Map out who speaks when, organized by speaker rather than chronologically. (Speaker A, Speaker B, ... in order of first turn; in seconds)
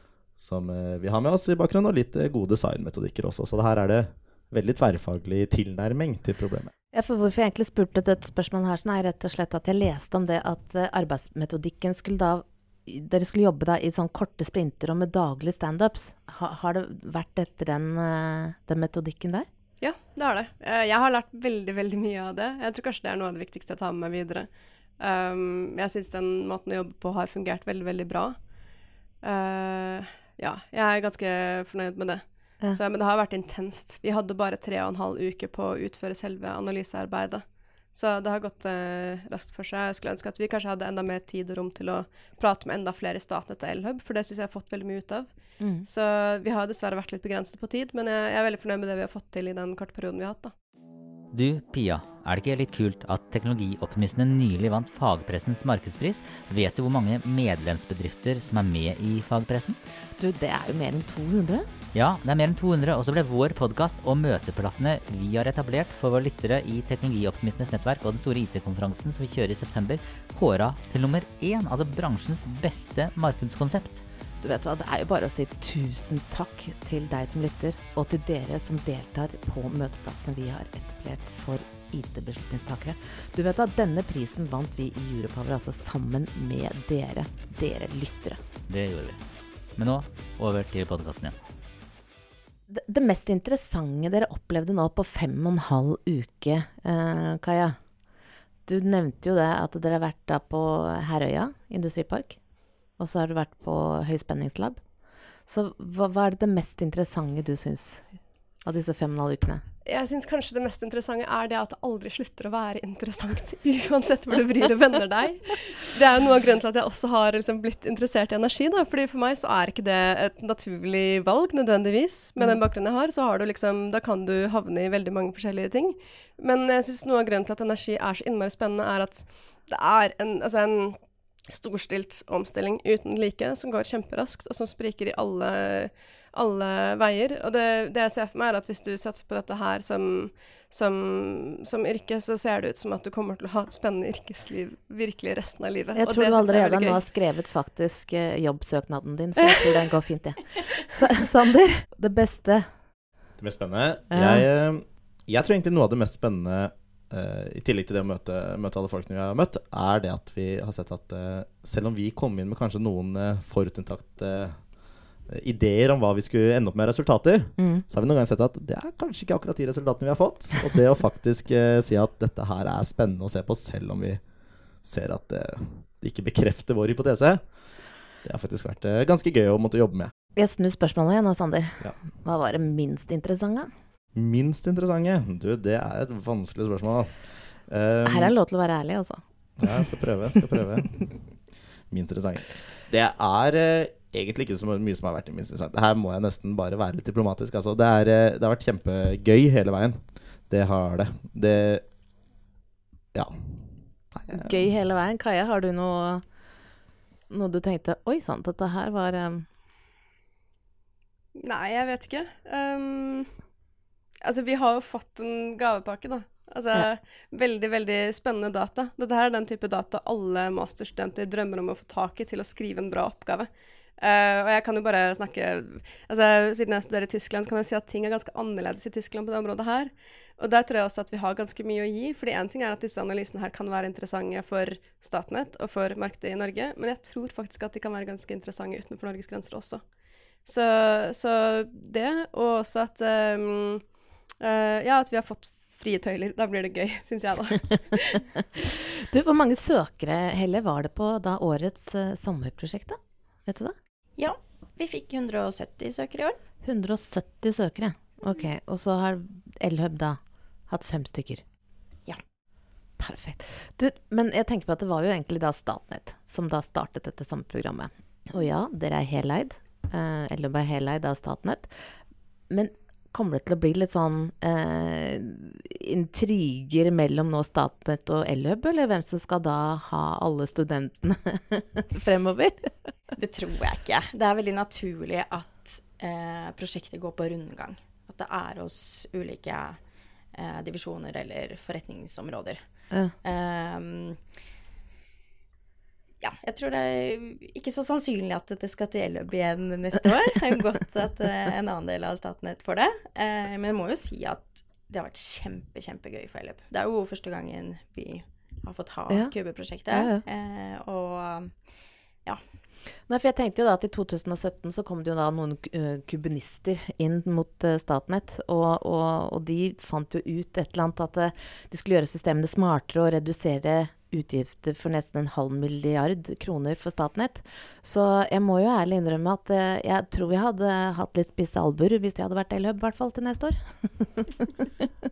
Speaker A: 0.4-6.7, 153.4-164.6, 165.3-174.2, 174.8-177.5, 178.2-180.1, 184.2-188.3, 189.6-191.2, 191.9-201.8, 203.1-204.7
Speaker B: 6.9-19.5, 45.6-45.9, 60.2-61.7, 74.4-88.4, 92.7-97.8, 98.7-102.4, 103.0-104.8, 105.5-108.1, 108.6-109.6, 122.4-122.6, 145.9-152.7, 154.1-154.5, 180.4-183.7, 188.1-189.8, 204.3-206.2, 207.3-209.5, 248.6-253.8, 256.6-261.4, 263.0-271.7, 272.5-282.8, 309.9-310.2, 313.1-334.9
Speaker C: 19.8-28.4, 29.2-50.5, 109.8-147.0, 211.4-213.3, 214.2-239.8, 240.4-243.9, 244.4-248.3
Speaker D: 51.3-59.8, 61.9-74.0, 88.7-89.2, 89.8-91.4
Speaker E: 254.2-256.4, 283.2-289.8, 290.3-292.6, 293.2-294.2, 296.2-311.6